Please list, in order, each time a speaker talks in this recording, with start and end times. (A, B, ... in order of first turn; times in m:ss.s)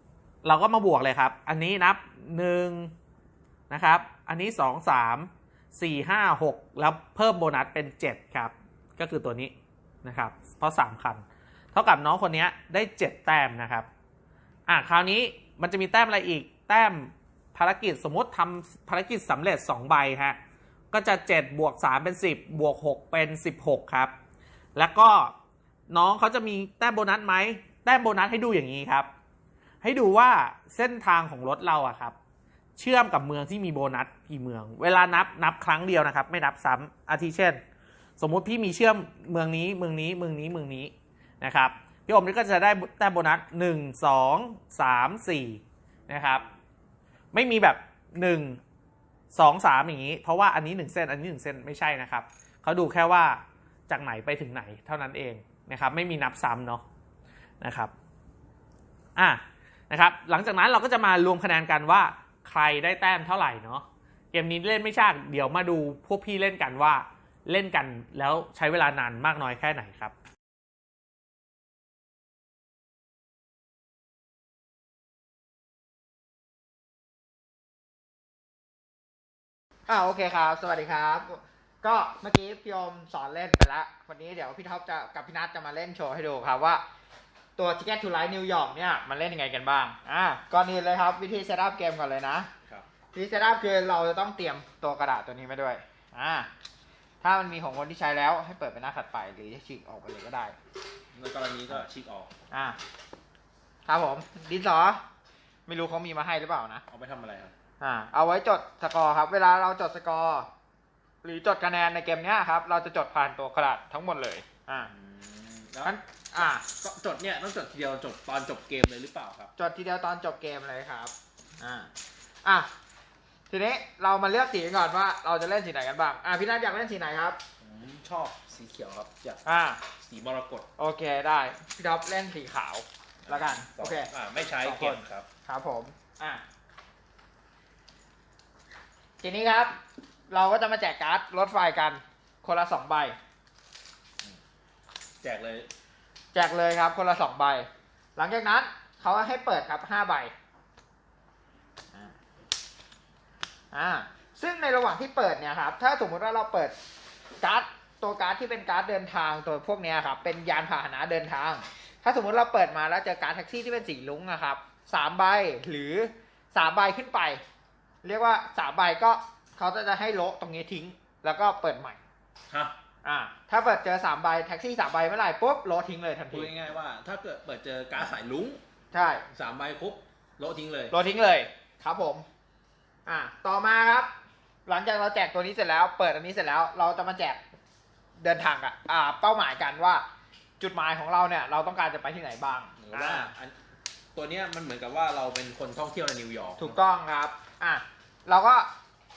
0:00.4-0:02.9 A
0:03.7-0:13.9 A
0:14.7-0:20.4 A
0:20.9-0:24.1 A
0:24.8-0:25.3 A
0:25.9-0:29.1 A
0:29.8-0:32.2 A
0:32.8-0:37.6 A
0:38.2-0:46.4 A
0:47.3-0:48.6 A
0:49.3-0:56.8 A
0:57.6-0:57.9 A
0:59.2-1:10.1 A
1:19.9-1:26.8 B
1:27.6-1:32.5 B
1:33.1-1:36.5 B
1:37.2-1:40.5 B
1:41.1-1:42.3 C
1:42.5-1:42.8 B
1:43.8-1:45.0 B
1:45.7-1:46.8 B
1:46.9-1:47.5 C
1:47.8-1:50.5 B
1:51.2-1:54.9 B
1:54.9-1:56.0 C
1:55.8-1:56.6 B
1:56.8-1:59.5 C
1:59.6-2:01.9 B
2:02.4-2:02.7 B
2:03.5-2:07.4 B
2:07.6-2:09.4 C
2:09.4-2:09.8 B
2:10.0-2:10.7 C
2:10.8-2:16.4 B
2:13.2-2:15.3 C
2:19.2-2:23.2 B
2:25.2-2:25.7 C
2:26.3-2:30.3 B
2:33.7-2:36.8 B
2:37.4-2:47.4 B
2:48.0-2:52.0 B
2:52.5-2:52.8 C
2:53.0-2:56.5 B
2:56.3-2:58.6 C
2:58.9-2:59.3 B
2:59.3-3:01.0 C
3:00.9-3:02.2 B
3:03.0-3:04.1 B
3:04.6-3:07.4 B
3:08.2-3:10.0 B
3:10.6-3:13.3 B
3:12.8-3:13.6 C
3:14.1-3:16.8 C
3:16.6-3:18.7 B